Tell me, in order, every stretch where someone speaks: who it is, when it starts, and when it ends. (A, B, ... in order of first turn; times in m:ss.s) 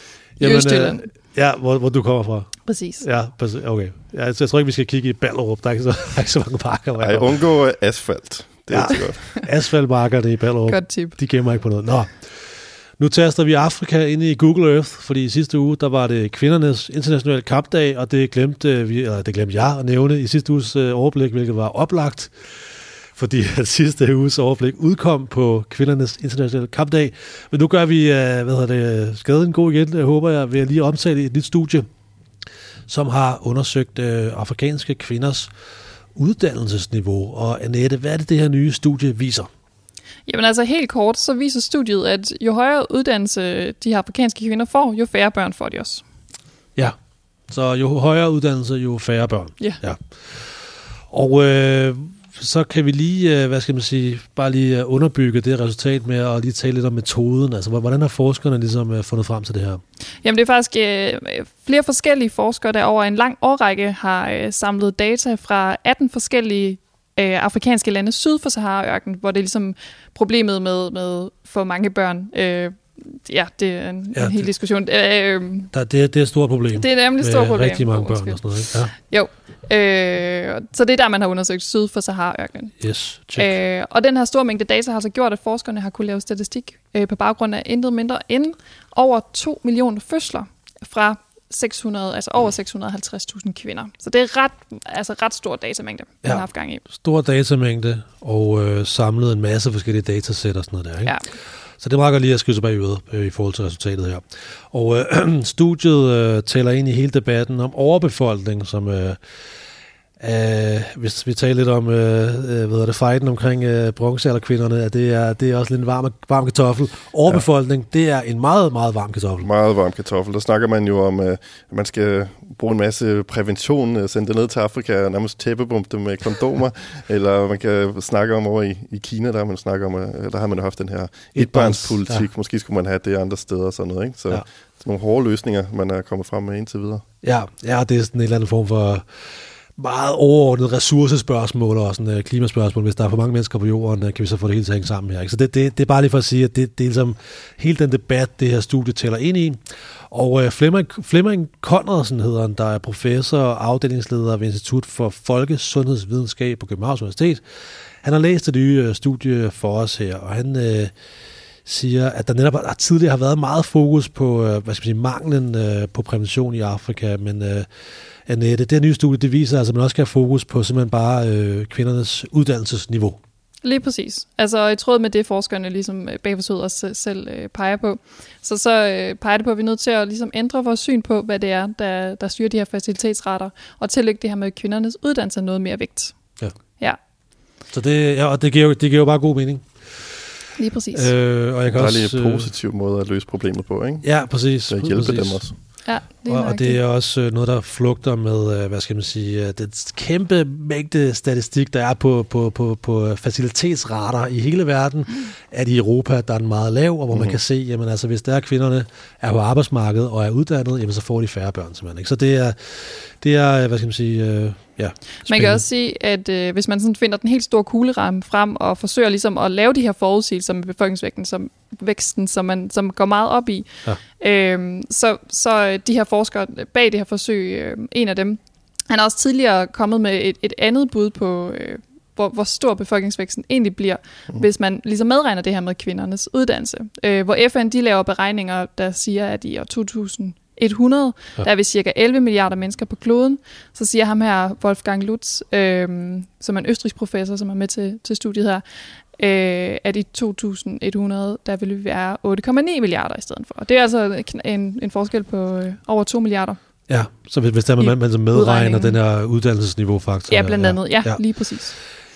0:00.4-0:07.3 A
0:00.4-0:01.1 B
0:02.6-0:03.0 B
0:07.0-0:09.2 C
0:08.7-0:12.3 A
0:10.7-0:11.2 B
0:13.0-0:22.3 A
0:23.1-0:31.9 A
0:32.9-0:35.5 A
0:36.2-0:39.5 A
0:40.3-0:46.0 B
0:47.5-0:59.8 A
1:00.2-1:15.7 B
1:14.1-1:14.4 A
1:15.7-1:18.9 A
1:16.7-1:22.8 B
1:22.8-1:23.6 A
1:23.3-1:36.8 B
1:36.2-1:41.2 A
1:41.8-1:49.2 A
1:50.2-1:59.5 A
1:59.4-2:17.0 C
2:11.3-2:12.2 A
2:17.2-2:19.0 A
2:19.8-2:29.6 A
2:30.1-2:37.4 A
2:38.0-2:40.9 A
2:41.6-2:47.7 A
2:48.3-2:53.2 A
2:53.6-3:06.2 B
3:07.7-3:10.0 A
3:10.6-3:11.1 B
3:10.9-3:12.5 A
3:11.7-3:14.1 C
3:14.0-3:15.6 A
3:14.7-3:15.5 C
3:15.8-3:16.8 B
3:16.2-3:35.6 A
3:27.1-3:27.4 C
3:35.3-4:08.6 B
4:09.2-4:16.6 B
4:16.9-4:21.2 A
4:17.8-4:19.0 B
4:20.3-4:21.8 B